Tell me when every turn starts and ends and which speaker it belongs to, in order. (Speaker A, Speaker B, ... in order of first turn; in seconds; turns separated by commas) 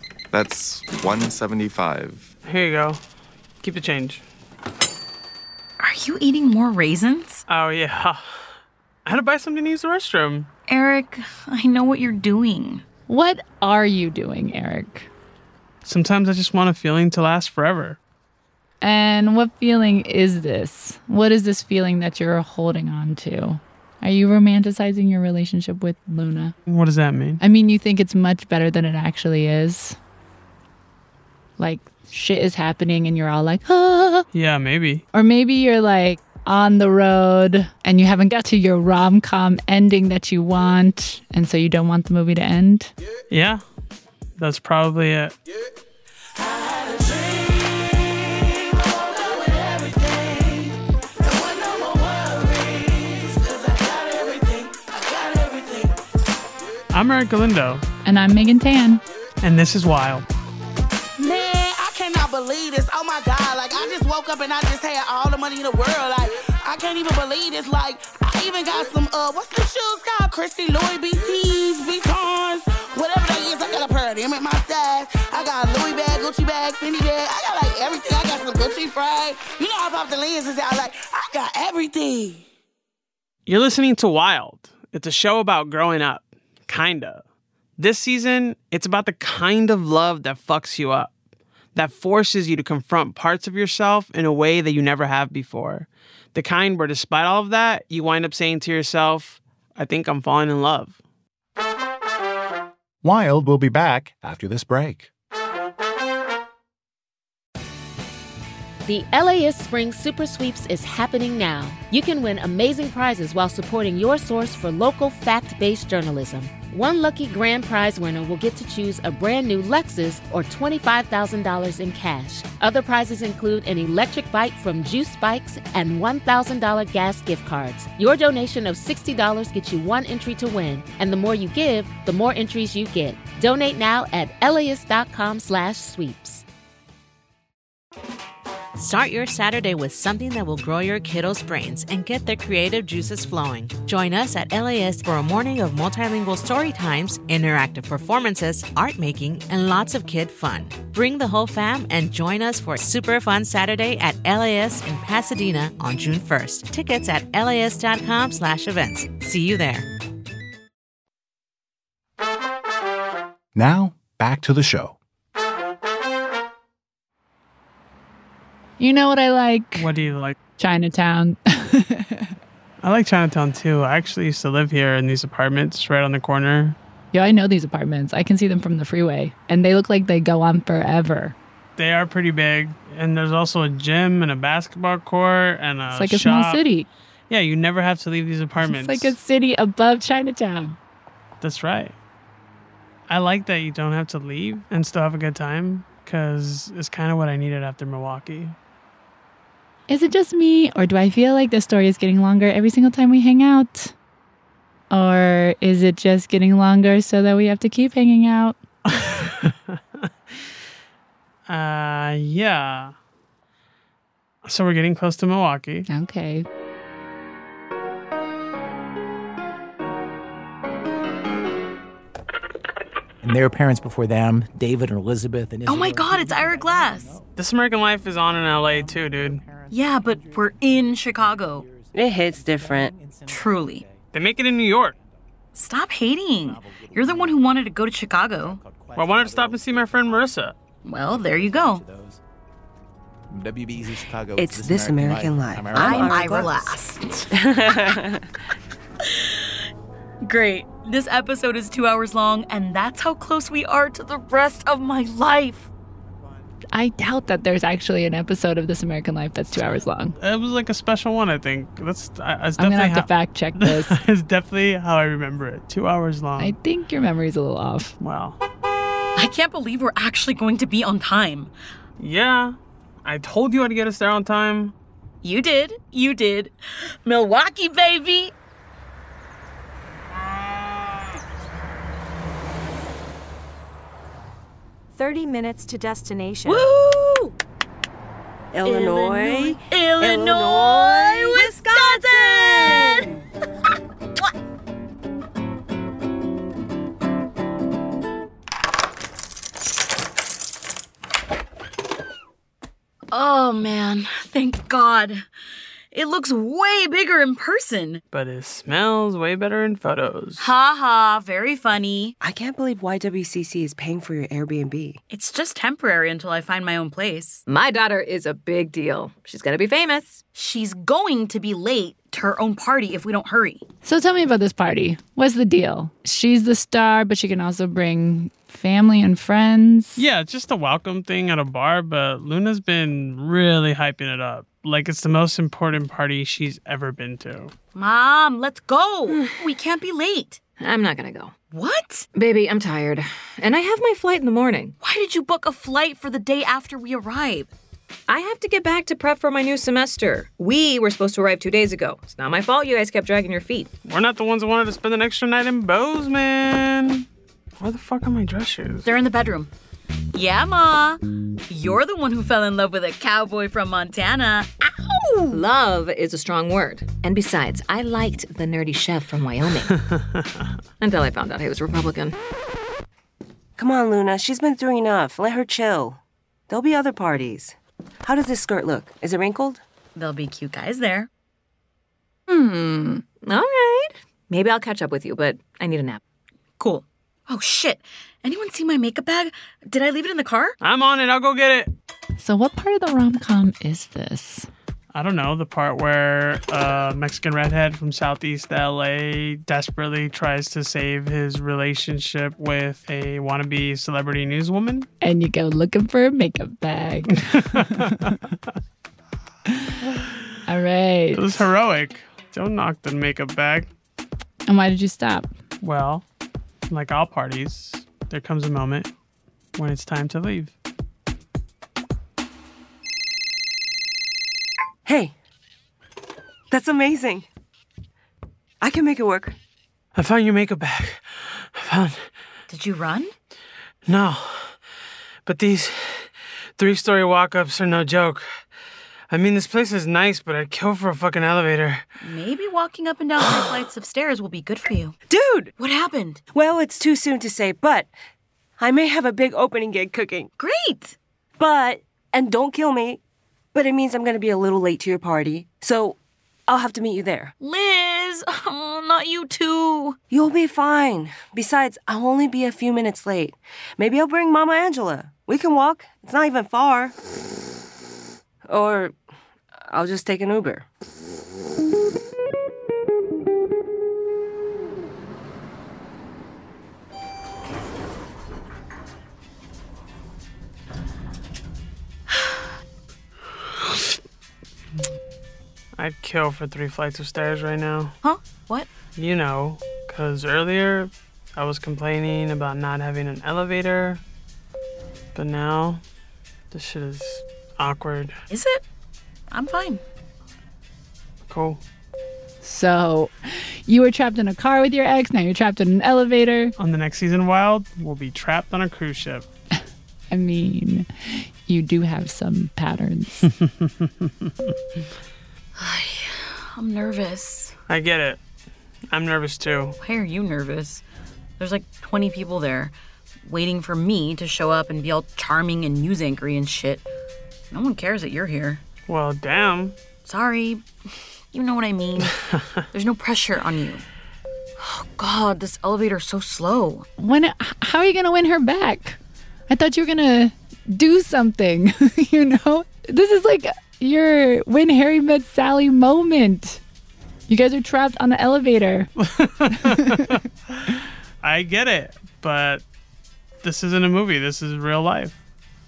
Speaker A: 0.3-2.3, Speaker B: 2.4-3.0, Speaker B: 3.6-4.2, Speaker C: 5.8-7.4, Speaker B: 7.5-8.3, Speaker B: 9.1-10.5, Speaker C: 10.7-12.8, Speaker D: 13.1-15.1, Speaker B: 15.8-18.0, Speaker D: 18.8-26.5, Speaker B: 26.7-27.4, Speaker D: 27.4-30.0, Speaker D: 31.6-34.2, Speaker B: 34.3-35.0, Speaker D: 35.1-42.9, Speaker B: 43.3-43.6, Speaker B: 44.4-45.3, Speaker E: 46.4-55.9, Speaker B: 56.9-57.8, Speaker D: 58.0-59.0, Speaker B: 59.4-60.2, Speaker E: 61.2-82.5, Speaker B: 83.5-87.2, Speaker B: 87.8-91.1, Speaker B: 91.7-101.0, Speaker F: 103.0-105.1, Speaker G: 108.8-136.4, Speaker H: 138.7-159.9, Speaker F: 163.5-165.0, Speaker D: 168.8-169.9, Speaker B: 169.8-170.3, Speaker D: 170.6-172.3, Speaker B: 172.8-176.8, Speaker D: 177.1-181.3, Speaker B: 181.8-186.6, Speaker D: 185.9-186.9, Speaker B: 187.3-189.1, Speaker D: 188.6-190.8, Speaker B: 191.4-191.9, Speaker B: 193.1-198.6, Speaker D: 199.9-203.9, Speaker D: 204.9-208.6, Speaker B: 208.9-209.8, Speaker B: 211.5-212.9, Speaker B: 214.4-215.8, Speaker D: 215.9-216.4, Speaker I: 223.2-227.3, Speaker C: 225.7-227.2, Speaker B: 227.3-229.5, Speaker I: 228.7-230.9, Speaker C: 229.7-231.7, Speaker I: 231.6-231.9, Speaker J: 231.9-232.9, Speaker I: 232.6-234.0, Speaker C: 233.3-233.9, Speaker B: 234.1-235.0, Speaker C: 235.5-238.6, Speaker I: 236.4-237.3, Speaker I: 238.4-239.8, Speaker B: 238.9-240.6, Speaker C: 240.8-241.8, Speaker I: 241.1-242.2, Speaker I: 243.3-246.4, Speaker J: 244.3-246.7, Speaker C: 245.7-247.3, Speaker J: 247.3-248.2, Speaker C: 250.2-255.7, Speaker D: 256.7-260.1, Speaker B: 260.2-266.6, Speaker D: 262.6-264.0, Speaker D: 266.4-267.9, Speaker B: 268.0-268.4, Speaker C: 269.1-271.5, Speaker B: 272.0-274.7, Speaker C: 275.2-276.5, Speaker C: 277.0-278.3, Speaker K: 284.9-286.7, Speaker C: 286.4-287.3, Speaker J: 288.5-291.2, Speaker C: 288.6-293.1, Speaker K: 291.6-292.8, Speaker C: 303.1-305.2, Speaker C: 305.9-308.0, Speaker B: 308.1-310.5, Speaker C: 310.4-312.1, Speaker J: 312.2-315.0, Speaker C: 315.1-317.4, Speaker L: 317.4-320.2, Speaker C: 320.3-323.6, Speaker D: 323.8-330.0, Speaker B: 329.9-337.5, Speaker C: 337.7-340.4, Speaker L: 340.6-341.4, Speaker C: 341.4-342.1, Speaker L: 342.1-344.7, Speaker C: 344.8-347.5, Speaker L: 348.1-353.7, Speaker B: 353.8-357.1, Speaker B: 357.6-358.9, Speaker C: 358.8-359.5, Speaker C: 360.1-365.4, Speaker L: 365.3-369.7, Speaker B: 369.9-370.4, Speaker L: 370.8-372.2, Speaker J: 373.6-379.6, Speaker C: 379.9-381.1, Speaker L: 382.3-386.0, Speaker C: 386.6-390.6, Speaker B: 390.6-391.7, Speaker D: 392.2-394.5, Speaker B: 394.9-404.9, Speaker D: 405.0-408.2, Speaker B: 407.2-408.2, Speaker D: 410.5-411.5, Speaker B: 411.1-413.7, Speaker D: 414.5-415.3, Speaker B: 415.6-416.0, Speaker B: 416.7-418.9, Speaker B: 419.5-420.5, Speaker J: 424.9-425.1, Speaker J: 426.5-427.3, Speaker J: 428.6-429.4, Speaker B: 429.9-432.0, Speaker C: 432.5-433.1, Speaker B: 433.9-434.5, Speaker B: 435.2-438.2, Speaker B: 439.1-441.8, Speaker C: 442.0-444.9, Speaker J: 445.1-445.5, Speaker C: 445.6-446.2, Speaker J: 446.3-447.9, Speaker J: 448.6-450.3, Speaker C: 450.4-450.9, Speaker J: 451.4-453.0, Speaker J: 453.5-457.3, Speaker C: 457.4-460.0, Speaker J: 460.1-466.9, Speaker J: 468.5-468.9, Speaker J: 469.6-470.6, Speaker B: 485.8-487.9, Speaker C: 488.0-488.7, Speaker B: 488.9-494.0, Speaker B: 495.1-495.8, Speaker B: 496.5-498.1, Speaker C: 498.3-498.6, Speaker C: 499.3-499.8, Speaker B: 501.3-501.6, Speaker D: 502.4-506.5, Speaker B: 506.6-509.2, Speaker D: 510.1-513.3, Speaker B: 513.3-514.3, Speaker C: 515.5-517.5, Speaker B: 517.7-518.2, Speaker B: 518.9-519.8, Speaker C: 519.8-520.8, Speaker C: 521.4-526.8, Speaker C: 527.5-528.6, Speaker B: 528.9-529.8, Speaker C: 530.0-530.6, Speaker C: 531.3-532.1, Speaker C: 532.7-533.8, Speaker C: 534.6-536.9, Speaker D: 537.0-539.0, Speaker D: 539.5-546.6, Speaker D: 547.3-548.9, Speaker B: 549.0-552.6, Speaker D: 549.6-550.0, Speaker B: 553.4-555.2